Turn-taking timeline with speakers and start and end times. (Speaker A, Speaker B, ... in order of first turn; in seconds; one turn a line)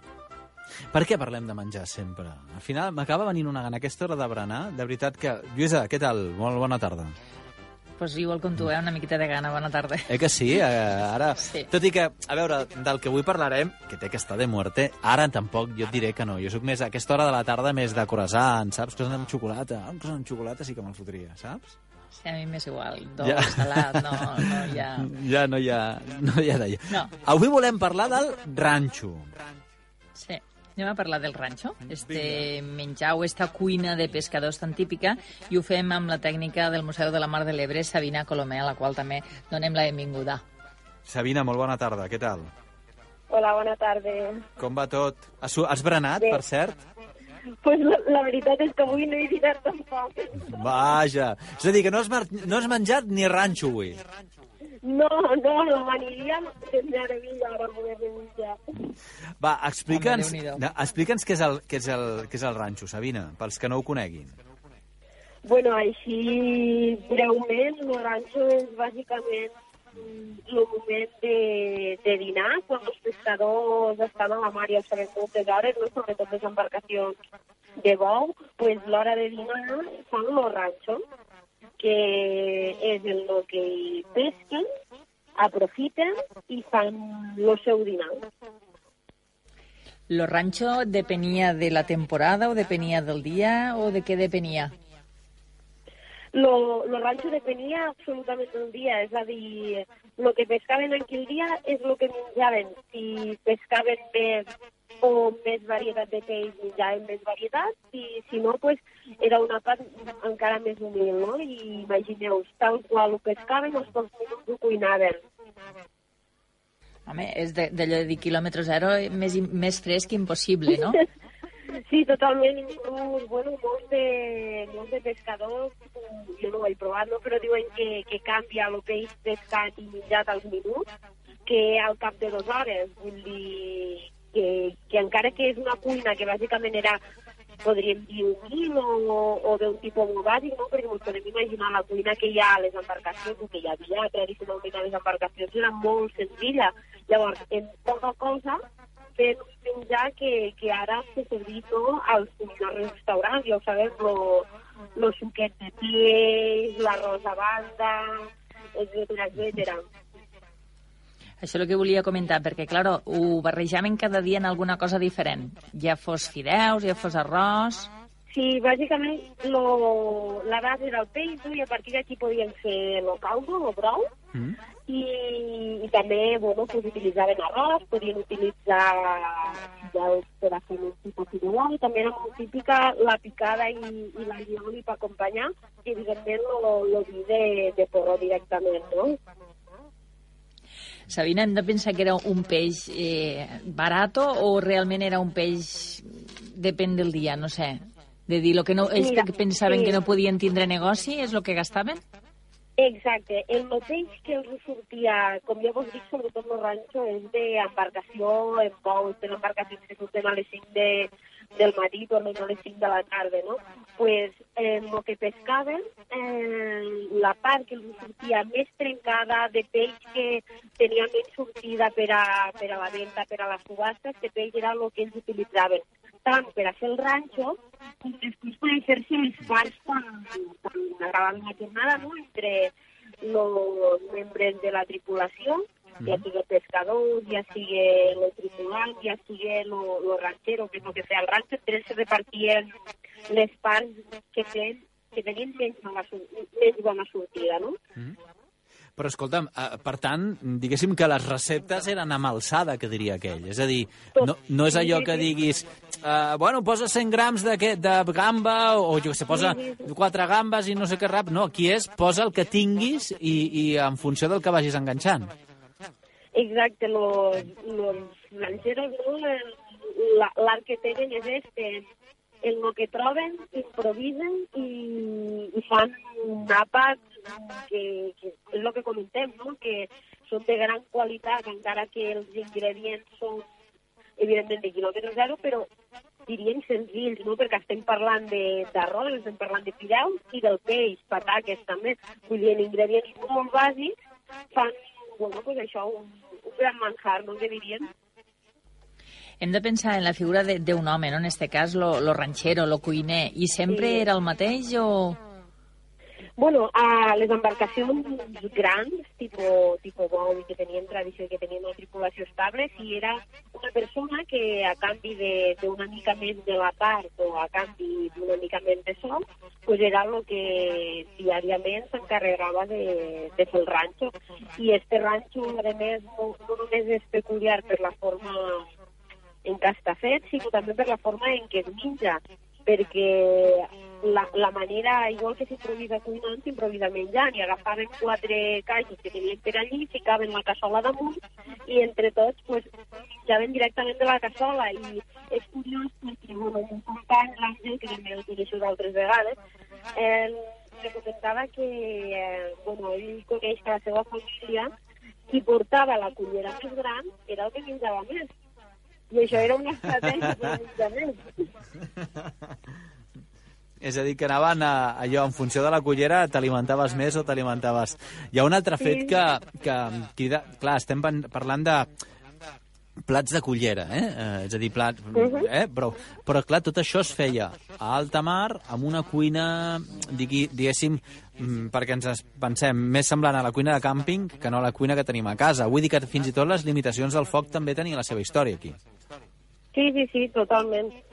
Speaker A: 0.9-7.1
Speaker B: 8.0-10.1
Speaker A: 10.1-21.8
Speaker B: 22.2-25.1
Speaker A: 23.2-29.3
Speaker B: 30.2-40.4
Speaker A: 31.9-32.5
Speaker A: 41.1-42.5
Speaker C: 43.3-44.5
Speaker A: 44.6-46.8
Speaker C: 47.6-50.9
Speaker A: 50.5-54.0
Speaker C: 54.8-58.8
Speaker A: 59.4-64.3
Speaker B: 59.9-60.6
Speaker C: 65.5-77.2
Speaker C: 77.8-81.0
Speaker C: 81.8-84.6
Speaker C: 85.4-88.2
Speaker B: 90.1-94.7
Speaker C: 96.3-104.5
Speaker C: 105.0-115.2
Speaker B: 117.1-121.0
Speaker C: 121.7-130.9
Speaker C: 131.5-137.0
Speaker C: 137.6-148.6
Speaker C: 149.2-159.8
Speaker B: 161.4-167.9
Speaker C: 168.3-174.1
Speaker C: 174.9-189.2
Speaker B: 191.1-202.0
Speaker C: 198.9-200.0
Speaker C: 202.8-242.7
Speaker C: 243.3-247.8
Speaker A: 249.0-265.3
Speaker C: 254.2-255.3
Speaker C: 259.3-259.9
Speaker C: 266.4-271.9
Speaker C: 272.4-283.4
Speaker C: 284.2-285.7
Speaker C: 286.3-293.9
Speaker C: 294.5-297.9
Speaker B: 299.4-305.2
Speaker C: 303.7-304.1
Speaker C: 306.4-328.7
Speaker C: 329.4-349.4
Speaker C: 349.9-354.7
Speaker C: 355.3-358.3
Speaker C: 359.1-361.5
Speaker A: 363.8-371.9
Speaker C: 368.8-369.2
Speaker A: 373.1-388.8
Speaker C: 375.1-375.5
Speaker C: 389.7-391.0